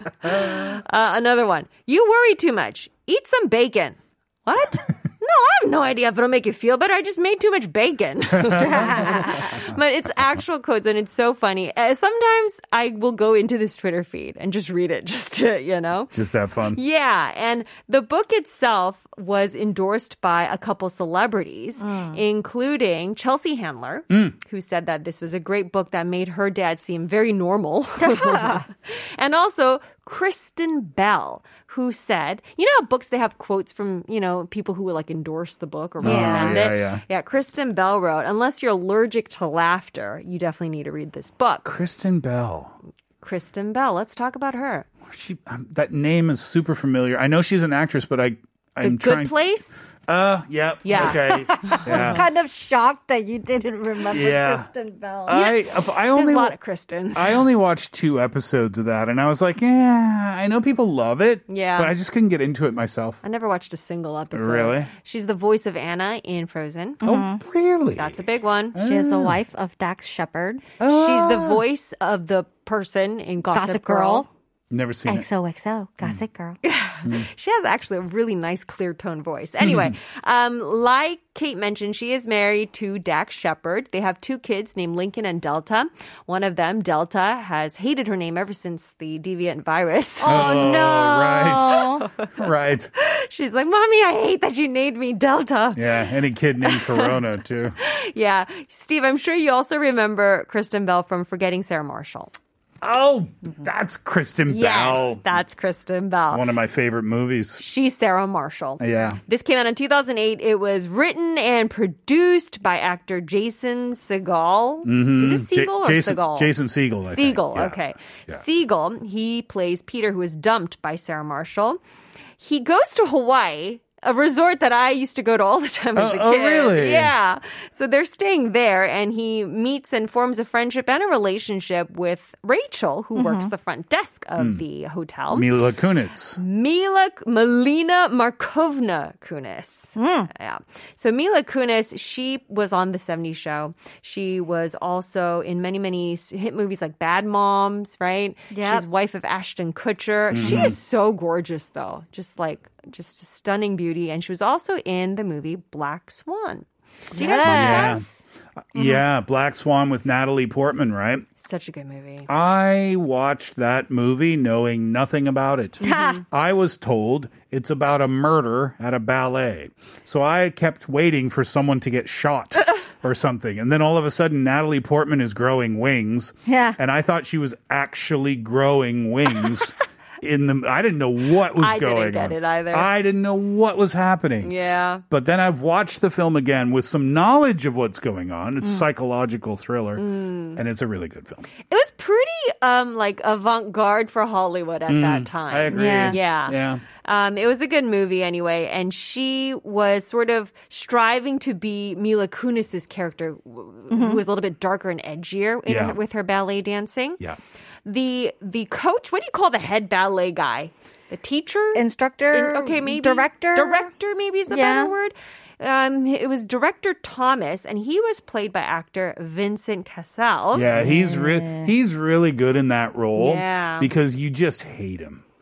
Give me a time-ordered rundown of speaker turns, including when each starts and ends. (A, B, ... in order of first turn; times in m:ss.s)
0:00.2-0:16.1 A
0:00.2-0:00.6 B
0:08.3-0:09.2 B
0:08.6-0:09.3 C
0:16.1-0:16.8 B
0:16.7-0:41.7 A
0:21.8-0:22.2 C
0:24.1-0:24.4 B
0:28.0-0:28.6 C
0:36.0-0:37.0 B
0:36.0-0:36.6 C
0:41.6-0:42.7 B
0:43.2-0:44.9 A
0:45.0-0:49.3 B
0:48.8-0:49.8 A
0:50.1-0:52.2 B
0:50.8-0:52.2 A
0:51.4-0:55.4 C
0:54.1-0:54.7 B
0:55.2-0:56.5 B
0:55.3-0:57.4 A
0:57.1-1:03.2 B
1:01.5-1:01.9 A
1:03.2-1:07.0 A
1:04.3-1:04.9 B
1:07.0-1:07.4 C
1:07.0-1:08.2 B
1:08.0-1:08.8 A
1:08.7-1:09.4 B
1:08.8-1:10.7 C
1:10.8-1:11.6 B
1:10.8-1:14.2 A
1:13.5-1:14.3 C
1:14.7-1:15.3 B
1:15.0-1:16.6 C
1:16.6-1:30.6 A
1:19.6-1:19.9 B
1:30.2-1:32.0 C
1:30.2-1:32.9 B
1:33.0-1:35.9 A
1:35.7-1:37.8 B
1:36.6-1:37.1 A
1:37.8-1:42.3 A
1:42.8-1:45.2 B
1:44.5-1:46.4 A
1:46.3-1:47.6 B
1:47.6-1:56.5 A
1:48.8-1:49.2 B
1:54.8-1:58.4 B
1:57.0-2:01.8 A
2:02.4-2:15.5 A
2:06.0-2:07.1 B
2:13.1-2:13.5 C
2:14.4-2:14.6 B
2:15.3-2:16.4 B
2:16.4-2:38.0 A
2:20.0-2:20.3 C
2:28.5-2:28.8 C
2:30.3-2:30.8 B
2:30.4-2:30.7 C
2:37.1-2:38.2 C
2:37.4-2:38.0 B
2:38.7-2:41.2 B
2:41.4-2:42.3 A
2:42.3-3:04.5 B
2:45.8-2:46.2 C
2:45.8-2:46.1 A
2:56.4-2:56.8 C
3:01.6-3:02.9 A
3:04.4-3:05.0 A
3:05.1-3:11.4 B
3:10.0-3:10.6 A
3:11.7-3:27.2 A
3:14.9-3:16.8 B
3:15.7-3:16.2 C
3:23.9-3:24.2 C
3:25.6-3:26.0 B
3:27.8-3:40.7 A
3:31.7-3:33.9 C
3:34.5-3:34.9 C
3:40.5-3:45.2 B
3:40.7-3:41.7 C
3:43.2-3:43.9 A